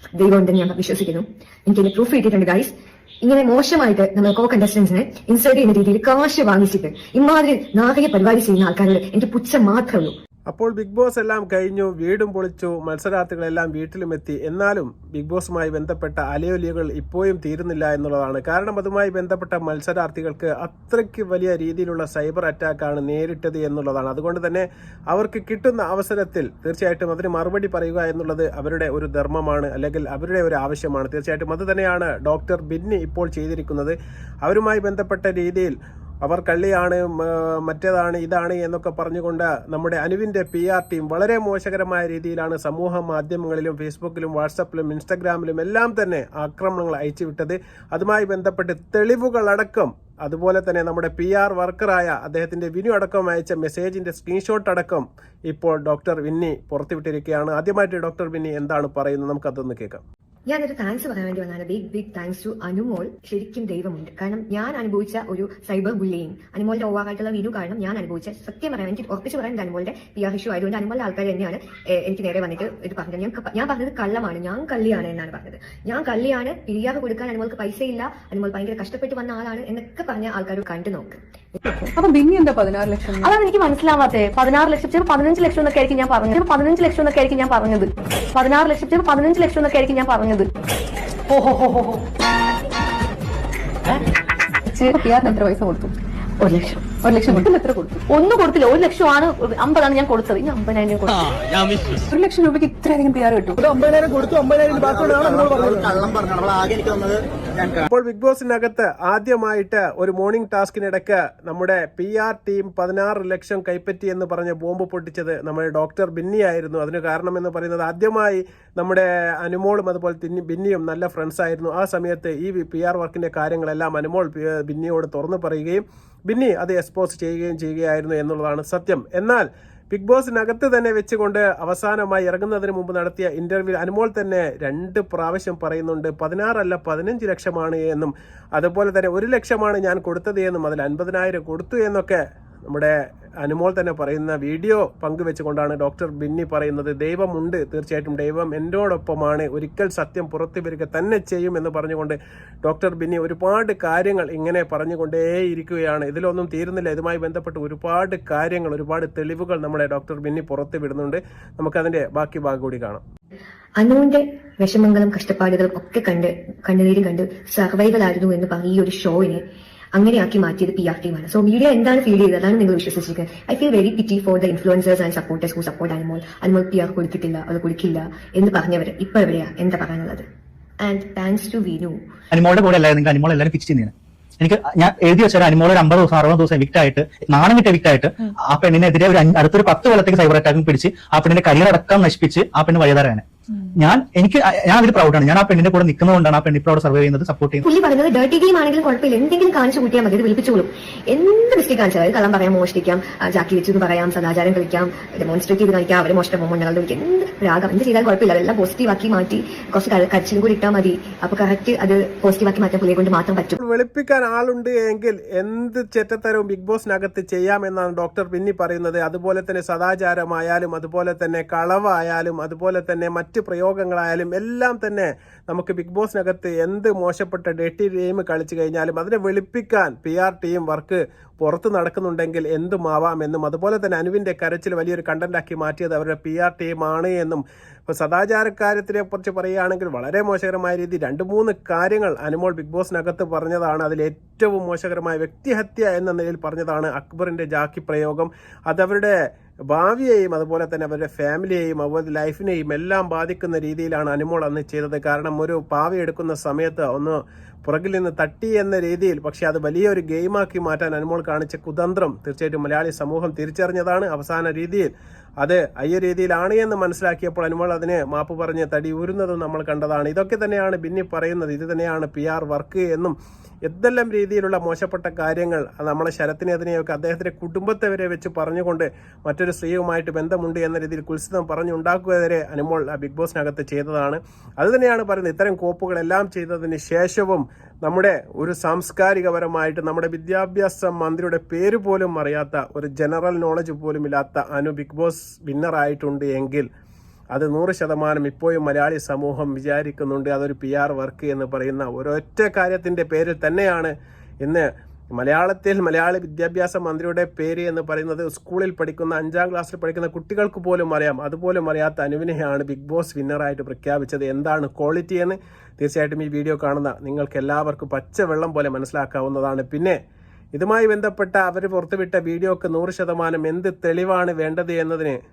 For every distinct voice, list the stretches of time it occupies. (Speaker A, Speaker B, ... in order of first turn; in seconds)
Speaker A: 0.1-10.2, 60.5-81.2, 163.8-169.4, 169.9-180.2, 180.8-182.0, 197.6-213.6
Speaker B: 10.5-60.0, 107.9-163.0, 213.6-249.2, 249.7-264.9, 265.4-273.1, 273.7-296.6, 297.3-320.0, 320.6-325.2
Speaker C: 81.9-83.3, 94.7-95.9, 96.9-98.0, 102.0-103.8, 105.3-105.8
Speaker D: 83.2-90.5, 91.3-92.0, 96.4-97.5, 98.1-101.4
Speaker E: 103.7-107.8
Speaker F: 182.3-197.6